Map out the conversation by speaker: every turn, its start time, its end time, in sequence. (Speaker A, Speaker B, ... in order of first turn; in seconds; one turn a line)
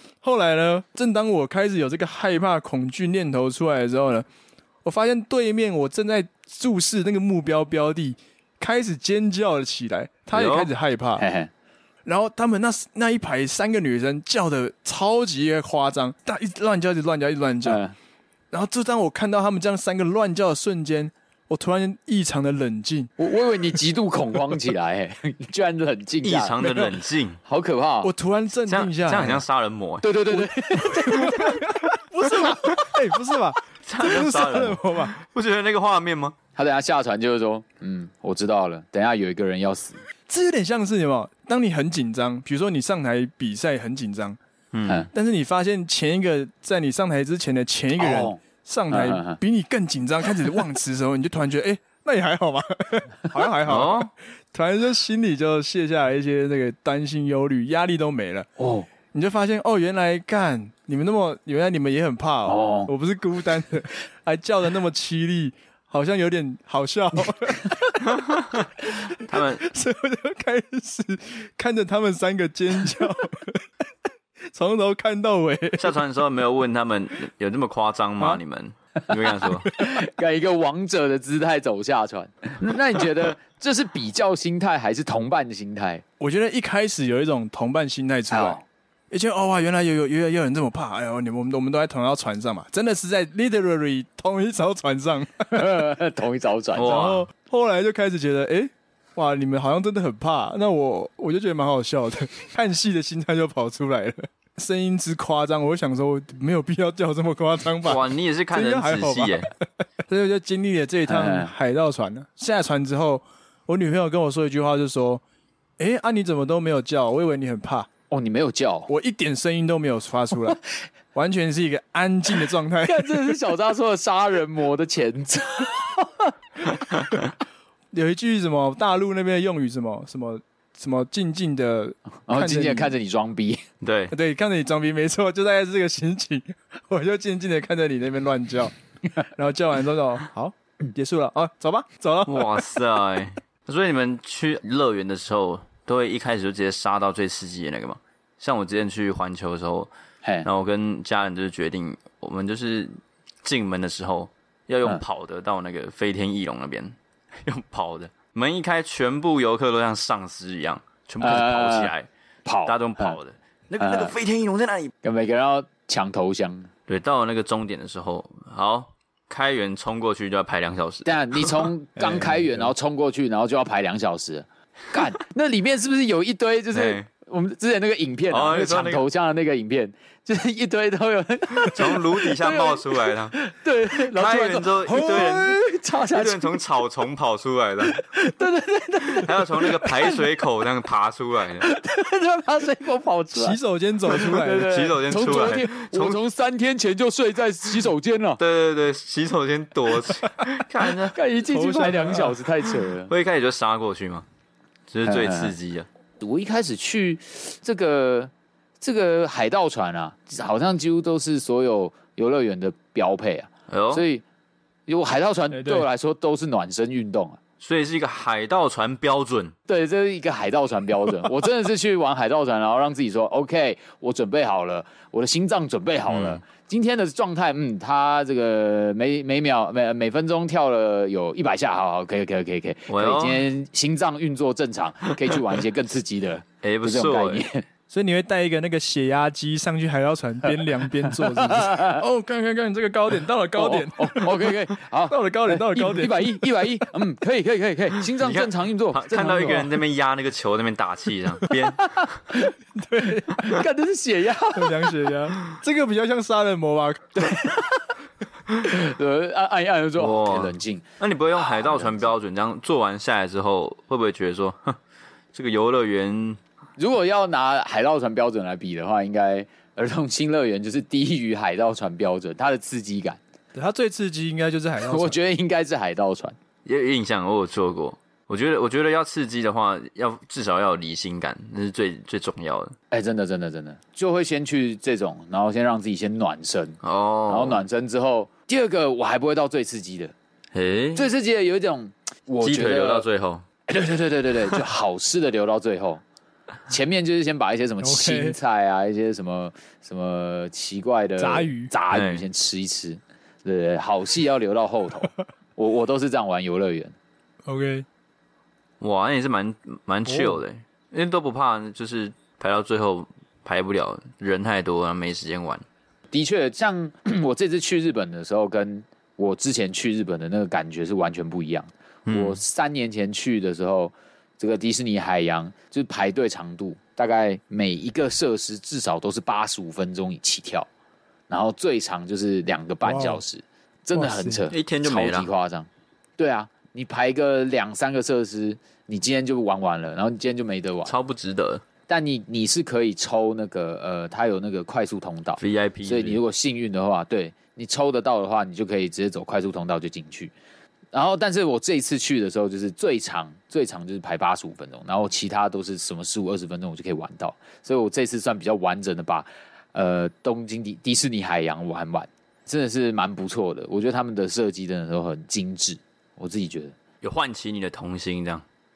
Speaker A: 0.2-4.3
Speaker A: 4.8-11.2
Speaker B: 10.3-10.7
Speaker C: 11.2-11.5
Speaker A: 12.1-17.8
Speaker C: 17.6-17.9
Speaker A: 18.5-23.1
Speaker C: 23.2-26.6
Speaker B: 26.2-27.4
Speaker A: 26.6-26.9
Speaker C: 27.4-28.1
Speaker A: 28.0-29.4
Speaker B: 28.7-30.4
Speaker C: 30.0-31.6
Speaker A: 30.8-35.2
Speaker B: 33.8-36.4
Speaker C: 36.6-40.0
Speaker A: 40.3-44.4
Speaker B: 44.7-45.1
Speaker A: 45.1-58.5
Speaker C: 48.0-49.4
Speaker B: 53.7-54.1
Speaker C: 58.6-58.9
Speaker A: 59.1-68.0
Speaker C: 62.5-62.9
Speaker B: 68.1-69.7
Speaker A: 69.1-73.7
Speaker A: 74.5-76.0
Speaker B: 75.8-79.7
Speaker C: 79.7-86.0
Speaker A: 86.2-95.8
Speaker C: 88.3-88.6
Speaker C: 95.5-97.0
Speaker B: 96.8-97.3
Speaker A: 96.8-109.5
Speaker B: 107.8-109.5
Speaker A: 110.1-115.2
Speaker C: 111.1-111.5
Speaker A: 115.8-117.9
Speaker C: 118.1-118.9
Speaker A: 118.9-120.6
Speaker A: 121.1-123.4
Speaker C: 122.8-126.2
Speaker A: 127.9-132.9
Speaker C: 132.3-133.6
Speaker B: 133.8-134.1
Speaker A: 134.1-138.7
Speaker A: 139.2-142.6
Speaker B: 142.3-149.9
Speaker C: 150.2-150.5
Speaker B: 150.4-162.1
Speaker C: 161.2-161.9
Speaker C: 162.5-163.2
Speaker B: 162.7-164.9
Speaker C: 163.8-164.1
Speaker C: 165.0-166.7
Speaker B: 166.9-171.7
Speaker C: 171.1-186.6
Speaker A: 172.0-172.7
Speaker B: 176.7-177.1
Speaker B: 178.3-179.0
Speaker B: 181.6-183.4
Speaker B: 184.0-185.6
Speaker A: 184.9-185.6
Speaker B: 186.1-188.0
Speaker C: 187.9-190.2
Speaker B: 189.1-191.7
Speaker C: 191.6-198.4
Speaker A: 193.3-194.7
Speaker B: 194.6-196.2
Speaker B: 198.4-201.2
Speaker C: 201.1-203.1
Speaker A: 201.4-202.4
Speaker B: 203.1-204.2
Speaker B: 204.9-205.9
Speaker C: 205.1-205.5
Speaker C: 206.2-214.2
Speaker B: 213.7-214.0
Speaker C: 214.9-217.4
Speaker A: 215.5-215.9
Speaker B: 217.6-219.5
Speaker C: 219.7-237.7
Speaker B: 226.1-226.4
Speaker B: 232.9-233.5
Speaker B: 236.6-237.4
Speaker A: 237.9-244.5
Speaker C: 241.0-242.0
Speaker C: 243.6-249.7
Speaker A: 245.1-246.4
Speaker B: 248.2-252.2
Speaker C: 251.8-252.5
Speaker A: 252.8-253.5
Speaker C: 253.3-254.9
Speaker A: 254.6-257.4
Speaker C: 257.2-257.9
Speaker C: 258.6-260.9
Speaker B: 260.0-264.8
Speaker C: 261.4-262.1
Speaker B: 265.3-266.4
Speaker C: 266.8-273.2
Speaker A: 273.5-275.2
Speaker C: 274.8-276.4
Speaker B: 276.6-282.8
Speaker C: 282.9-290.1
Speaker B: 286.8-287.6
Speaker B: 290.5-291.1
Speaker C: 290.9-293.1
Speaker B: 292.4-293.4
Speaker C: 293.7-296.0
Speaker C: 296.7-306.9
Speaker A: 297.8-298.4
Speaker A: 301.2-301.7
Speaker B: 301.9-302.2
Speaker A: 307.5-307.9
Speaker B: 308.8-315.6
Speaker A: 310.1-310.4
Speaker C: 316.1-330.7
Speaker B: 322.1-322.4
Speaker C: 331.3-340.9
Speaker A: 332.8-333.2
Speaker A: 333.9-334.5
Speaker B: 334.5-335.3
Speaker B: 340.9-341.6
Speaker C: 341.9-350.3
Speaker B: 345.4-346.2
Speaker C: 350.9-366.8
Speaker B: 367.0-368.4